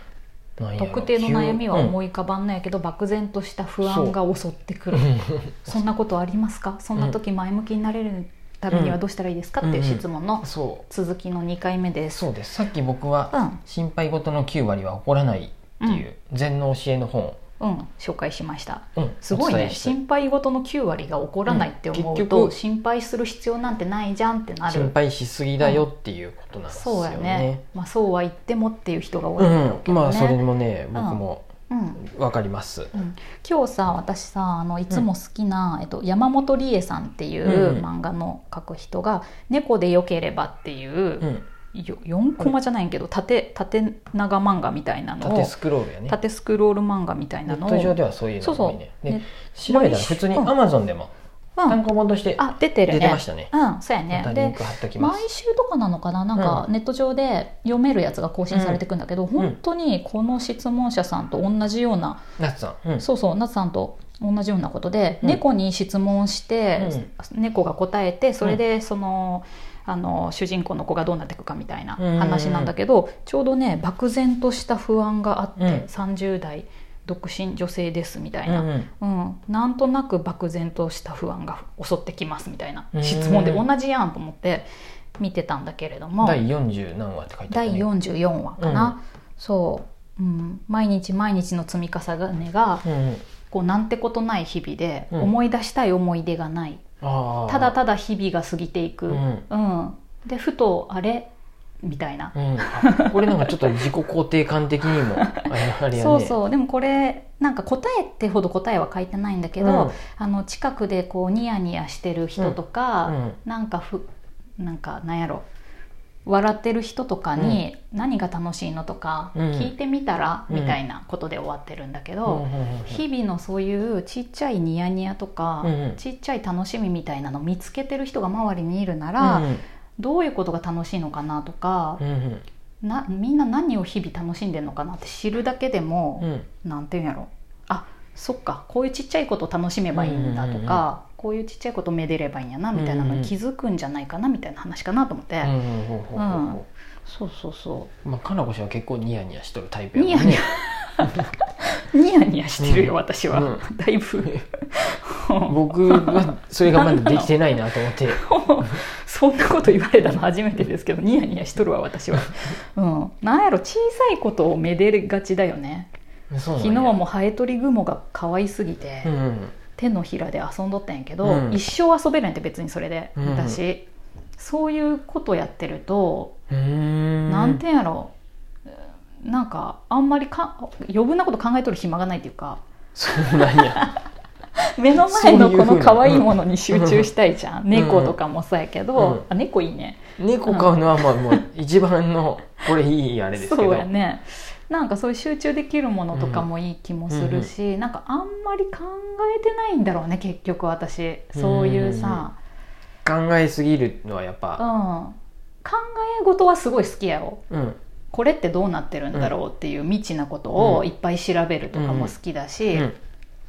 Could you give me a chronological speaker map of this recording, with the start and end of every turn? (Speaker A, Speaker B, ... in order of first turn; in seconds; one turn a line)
Speaker A: 0.6-1.9
Speaker B: 0.8-12.3
Speaker A: 3.8-4.2
Speaker A: 4.9-5.8
Speaker A: 8.7-9.0
Speaker A: 9.6-10.8
Speaker A: 12.1-17.4
Speaker B: 13.3-13.6
Speaker B: 17.6-24.9
Speaker A: 19.0-19.9
Speaker A: 21.5-22.5
Speaker A: 24.7-27.6
Speaker B: 25.6-25.8
Speaker B: 26.7-30.4
Speaker A: 29.4-31.5
Speaker B: 30.9-32.0
Speaker A: 32.0-32.9
Speaker B: 32.9-45.5
Speaker A: 37.4-37.8
Speaker A: 45.2-46.2
Speaker B: 46.1-50.5
Speaker A: 47.5-51.1
Speaker A: 51.7-53.5
Speaker B: 52.4-62.2
Speaker A: 54.1-55.2
Speaker A: 56.3-56.6
Speaker A: 58.5-58.8
Speaker A: 62.4-63.0
Speaker B: 63.0-84.7
Speaker A: 66.8-67.1
Speaker A: 72.0-72.7
Speaker A: 75.6-75.8
Speaker A: 78.5-78.9
Speaker A: 82.9-83.7
Speaker B: 85.2-86.4
Speaker A: 86.2-87.9
Speaker B: 87.5-92.8
Speaker A: 88.6-88.9
Speaker A: 92.8-93.2
Speaker B: 93.5-96.8
Speaker A: 97.0-97.8
Speaker B: 97.5-101.3
Speaker A: 99.1-99.4
Speaker B: 101.8-103.5
Speaker A: 102.3-106.4
Speaker B: 105.2-114.1
Speaker A: 109.6-110.0
Speaker A: 112.4-113.4
Speaker B: 114.6-115.5
Speaker B: 116.2-132.0
Speaker A: 119.3-119.7
Speaker A: 120.5-120.8
Speaker A: 122.2-123.0
Speaker A: 125.6-126.0
Speaker A: 129.2-129.6
Speaker A: 132.0-132.4
Speaker B: 132.8-145.5
Speaker A: 136.2-136.4
Speaker A: 139.9-140.8
Speaker A: 142.7-143.3
Speaker A: 145.4-146.7
Speaker B: 146.1-147.9
Speaker A: 148.0-150.4
Speaker B: 149.9-157.3
Speaker A: 152.6-153.6
Speaker A: 155.4-158.2
Speaker B: 158.1-165.9
Speaker A: 166.3-167.0
Speaker B: 166.6-169.1
Speaker A: 169.0-169.6
Speaker B: 169.8-176.3
Speaker A: 171.2-171.6
Speaker A: 173.2-173.6
Speaker A: 176.5-177.6
Speaker B: 177.3-178.1
Speaker B: 178.7-182.6
Speaker A: 182.9-183.8
Speaker B: 183.1-184.0
Speaker B: 184.8-191.4
Speaker A: 185.0-187.1
Speaker A: 187.7-188.2
Speaker A: 188.9-189.2
Speaker A: 190.2-193.9
Speaker B: 193.3-202.4
Speaker A: 196.1-196.4
Speaker A: 197.1-197.5
Speaker A: 201.3-202.2
Speaker A: 203.0-204.6
Speaker B: 204.6-207.4
Speaker A: 207.5-207.8
Speaker B: 208.1-212.9
Speaker A: 210.6-210.9
Speaker A: 211.7-212.1